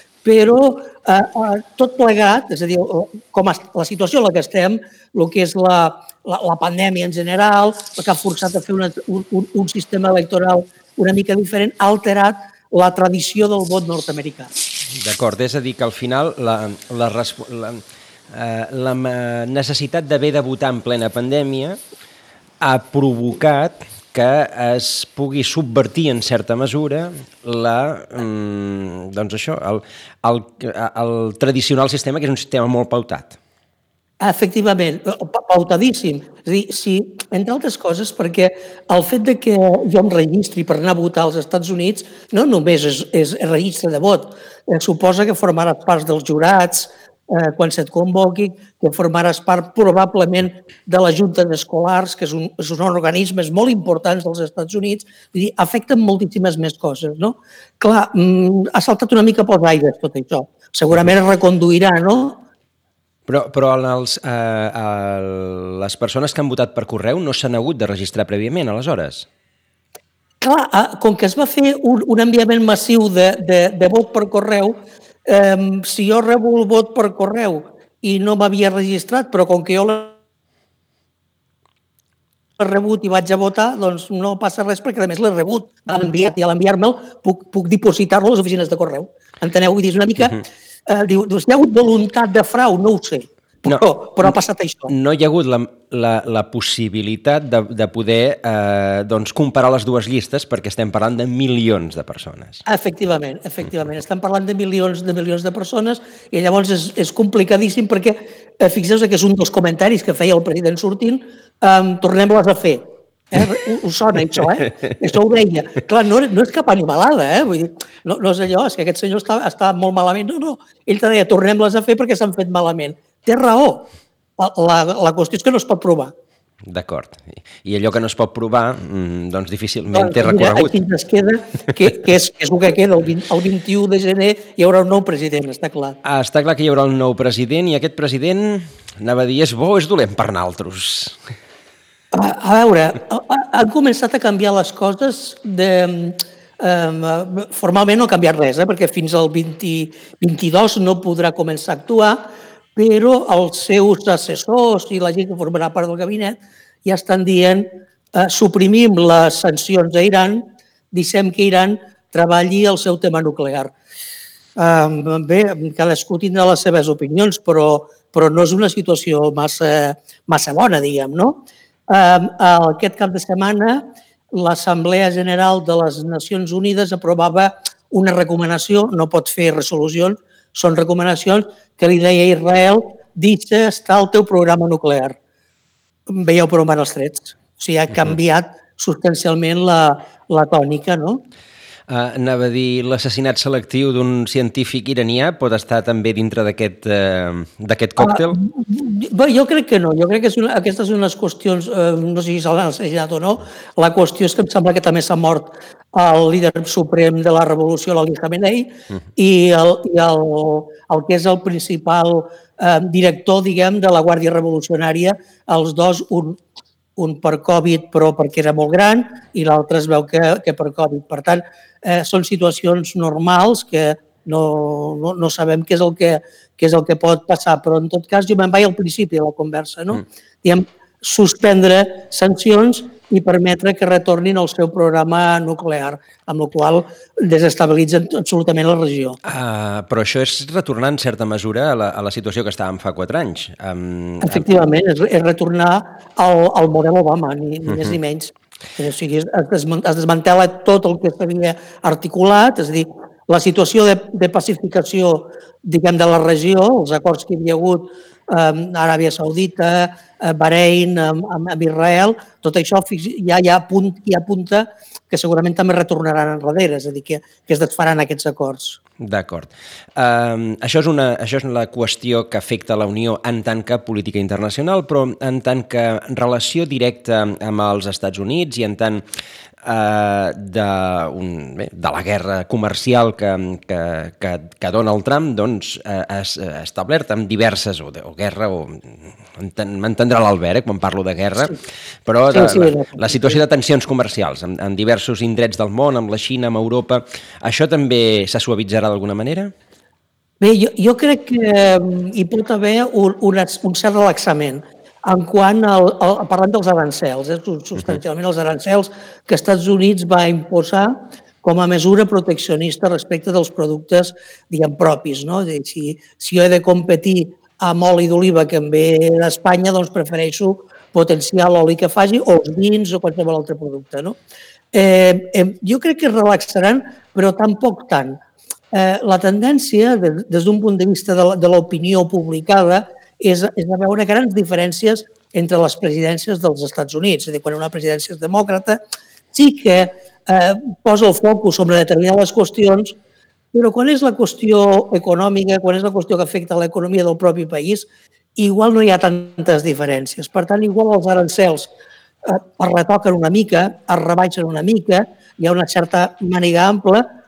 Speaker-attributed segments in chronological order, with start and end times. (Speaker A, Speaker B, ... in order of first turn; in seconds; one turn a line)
Speaker A: 0.2-14.5
Speaker B: 14.9-21.8
Speaker B: 22.6-33.4
Speaker A: 34.2-62.4
Speaker B: 63.3-69.3
Speaker A: 70.4-80.2
Speaker A: 82.6-94.9
Speaker B: 93.7-94.3
Speaker B: 94.9-102.6
Speaker A: 102.7-126.1
Speaker B: 126.7-130.8
Speaker A: 129.9-136.0
Speaker B: 136.0-141.2
Speaker A: 142.1-163.7
Speaker A: 164.6-185.2
Speaker A: 186.1-191.2
Speaker B: 191.9-198.4
Speaker A: 198.0-216.4
Speaker A: 217.0-239.2
Speaker B: 239.2-244.5
Speaker A: 244.2-268.8
Speaker B: 269.0-279.0
Speaker B: 279.6-299.5
Speaker A: 292.3-293.4
Speaker A: 300.4-324.1
Speaker A: 324.7-328.2
Speaker A: 328.7-338.8
Speaker A: 339.3-342.9
Speaker A: 343.5-351.7
Speaker A: 352.2-357.1